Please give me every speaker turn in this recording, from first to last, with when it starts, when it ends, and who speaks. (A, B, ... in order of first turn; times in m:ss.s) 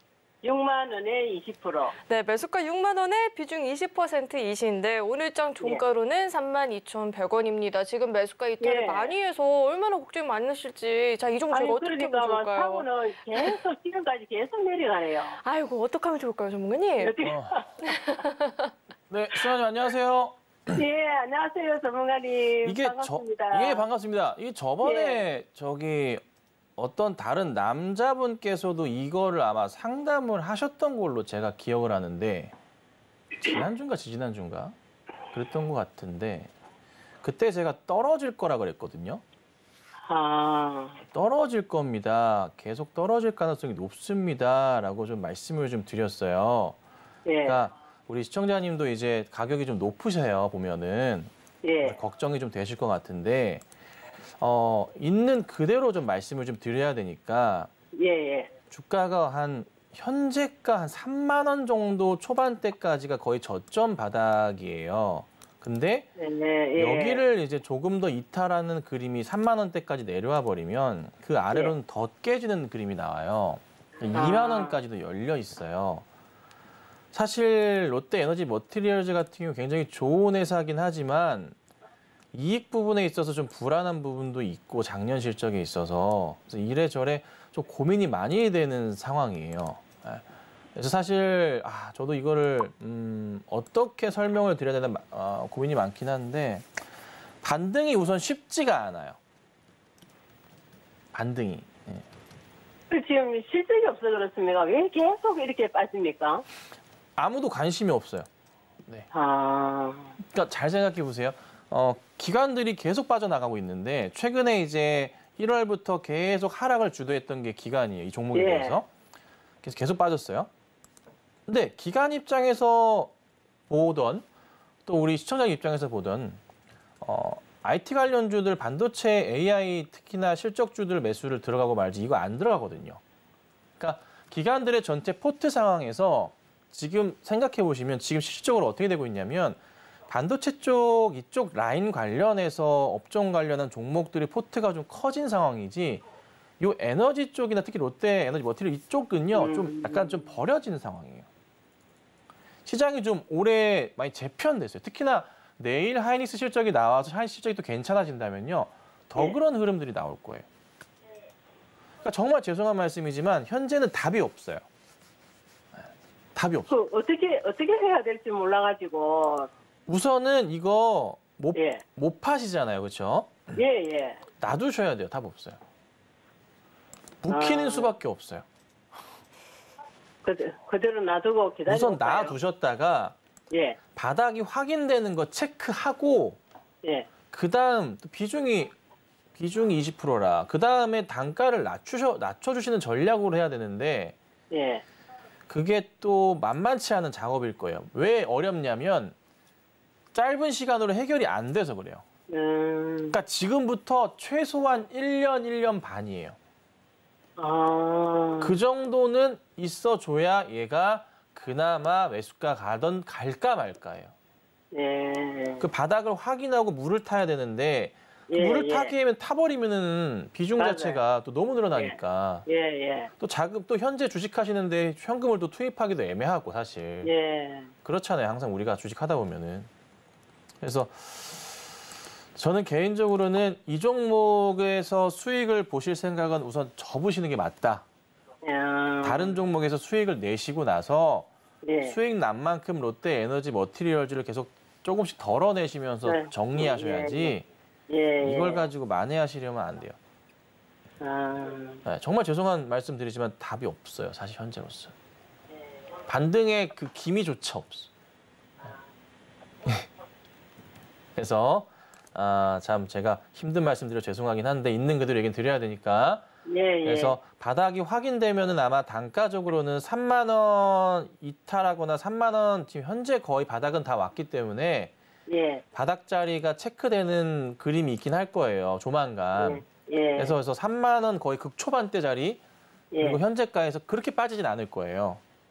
0:00.4-0:02.0 A
0:02.1-0:13.6 B
0:08.6-0:09.1 A
0:11.5-0:15.4 A
0:15.4-0:17.2 B
0:17.0-0:17.8 A
0:17.2-0:17.5 C
0:17.8-0:18.7 B
0:19.1-0:20.8 C
0:20.7-0:23.8 A
0:22.6-0:26.2 C
0:24.8-0:25.2 A
0:26.8-0:32.5 C
0:33.4-0:34.8 C
0:35.3-0:36.5 C
0:37.2-0:39.2 C
0:40.1-0:41.0 A
0:41.1-0:46.8 C
0:47.3-0:47.6 A
0:47.4-0:53.6 C
0:51.6-0:52.0 A
0:54.4-0:57.7 C
0:57.9-0:58.5 A
0:58.7-1:06.1 C
1:06.2-1:07.2 A
1:06.8-1:16.0 C
1:14.1-1:14.8 A
1:17.1-1:21.6 C
1:22.3-1:30.2 C
1:30.8-1:36.8 C
1:37.4-1:39.2 C
1:41.1-1:42.1 C
1:42.9-1:46.4 A
1:47.2-1:48.3 C
1:49.1-1:50.2 A
1:50.2-1:58.9 C
1:58.3-1:58.8 A
1:59.6-2:00.5 C
2:01.5-2:03.1 C
2:03.7-2:04.2 C
2:04.9-2:06.4 C
2:07.0-2:13.0 C
2:13.8-2:26.0 C
2:26.6-2:31.3 C
2:29.3-2:30.2 A
2:32.6-2:40.4 C
2:42.0-2:44.6 C
2:46.4-2:46.7 C
2:46.7-2:49.5 A
2:49.9-2:53.5 C
2:51.6-2:51.8 A
2:53.5-2:54.2 A
2:54.4-2:55.6 C
2:57.2-2:58.4 C
2:57.3-2:57.9 A
3:00.2-3:02.4 A
3:01.6-3:03.2 C
3:03.5-3:03.8 A
3:04.0-3:06.4 C
3:06.8-3:07.1 A
3:07.3-3:08.7 C
3:09.4-3:14.2 C
3:14.5-3:14.8 A
3:15.5-3:19.1 C
3:20.1-3:22.0 C
3:22.3-3:23.2 A
3:23.1-3:26.4 C
3:27.4-3:28.6 A
3:28.4-3:34.1 C
3:34.7-3:35.6 A
3:35.6-3:42.4 C
3:38.3-3:38.9 A
3:40.6-3:41.0 A
3:41.7-3:43.1 A
3:43.2-3:47.1 C
3:47.0-3:47.7 A
3:47.8-3:49.7 C
3:50.6-3:51.8 C
3:52.4-3:57.8 C
3:58.4-3:59.4 A
3:59.0-4:01.3 C
4:01.6-4:02.0 A
4:01.8-4:07.4 C
4:06.0-4:08.7 A
4:08.2-4:10.0 C
4:11.0-4:11.8 A
4:11.8-4:14.9 C
4:16.1-4:17.9 C
4:21.2-4:26.3 C
4:26.4-4:27.2 A
4:26.8-4:34.9 C
4:35.3-4:35.6 A
4:35.7-4:39.6 C
4:39.4-4:40.4 A
4:40.2-4:42.4 C
4:42.9-4:43.2 A
4:43.0-4:45.2 C